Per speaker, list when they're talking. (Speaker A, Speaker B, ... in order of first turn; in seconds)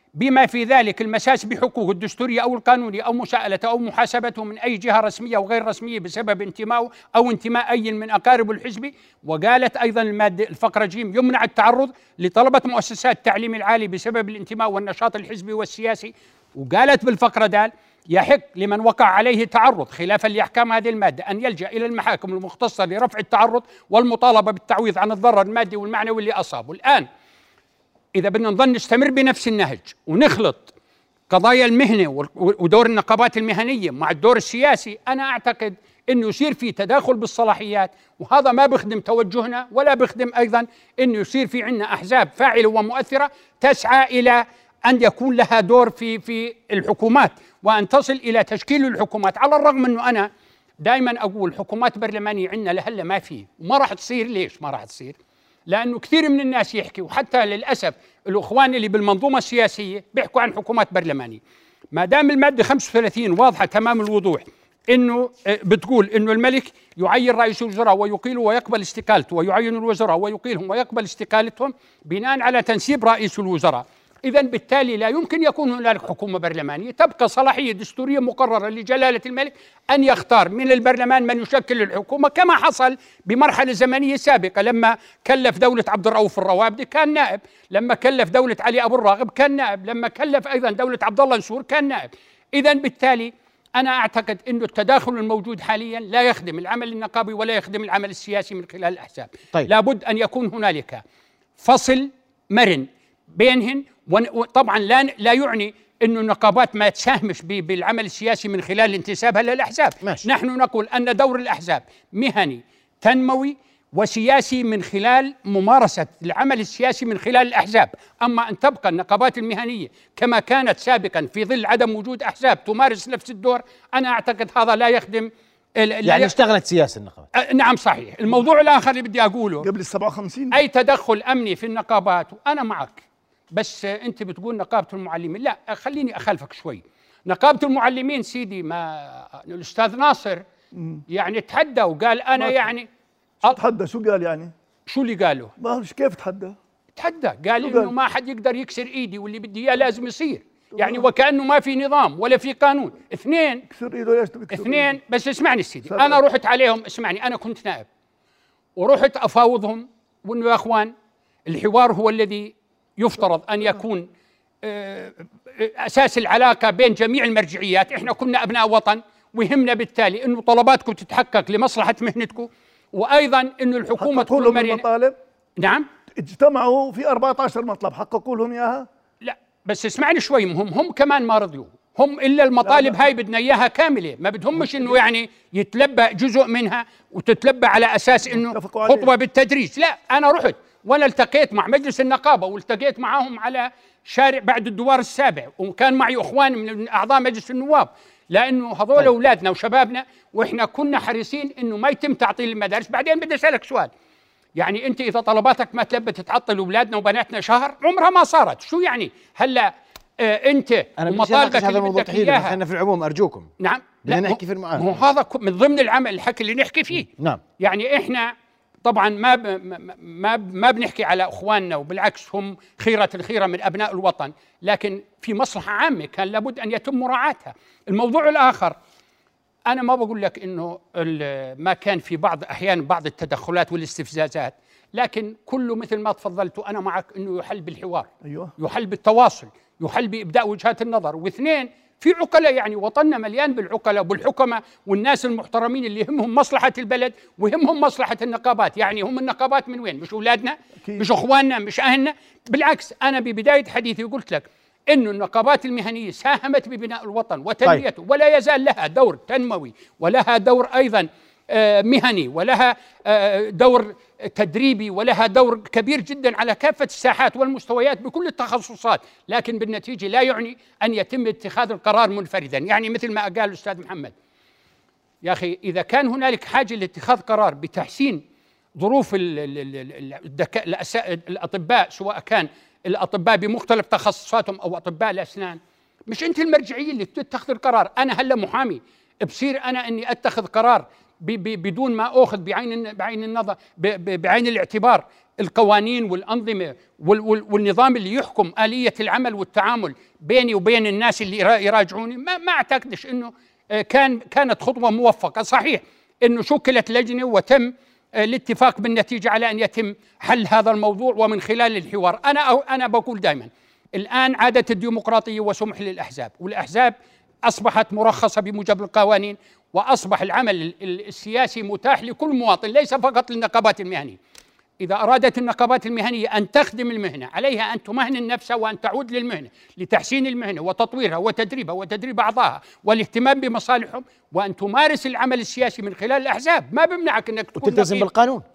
Speaker A: 0.2-27.1, 28.1-30.7, 31.3-50.3, 50.8-55.2, 55.7-61.4, 61.9-101.0, 101.6-126.3, 127.3-129.7, 130.5-140.4, 141.1-142.9, 144.9-145.5, 147.0-153.7, 154.5-157.9, 158.8-160.9, 161.5-164.1, 164.6-174.8, 175.6-175.9, 179.2-203.9, 204.6-212.6, 213.6-218.3, 218.8-228.8, 229.7-274.1, 275.2-278.2, 278.8-316.9, 317.4-324.2, 324.8-338.1
Speaker B: 126.0-127.3, 211.0-213.5, 214.1-214.9, 217.1-217.4, 337.6-338.4
Speaker C: 129.6-130.6, 140.8-141.0, 142.4-142.7, 143.4-144.5, 145.6-146.6, 147.6-147.9, 150.8-151.1, 153.7-155.0, 155.9-156.2, 174.0-175.2, 176.2-178.9, 182.6-183.1, 184.6-185.0, 188.3-189.1, 238.2-238.5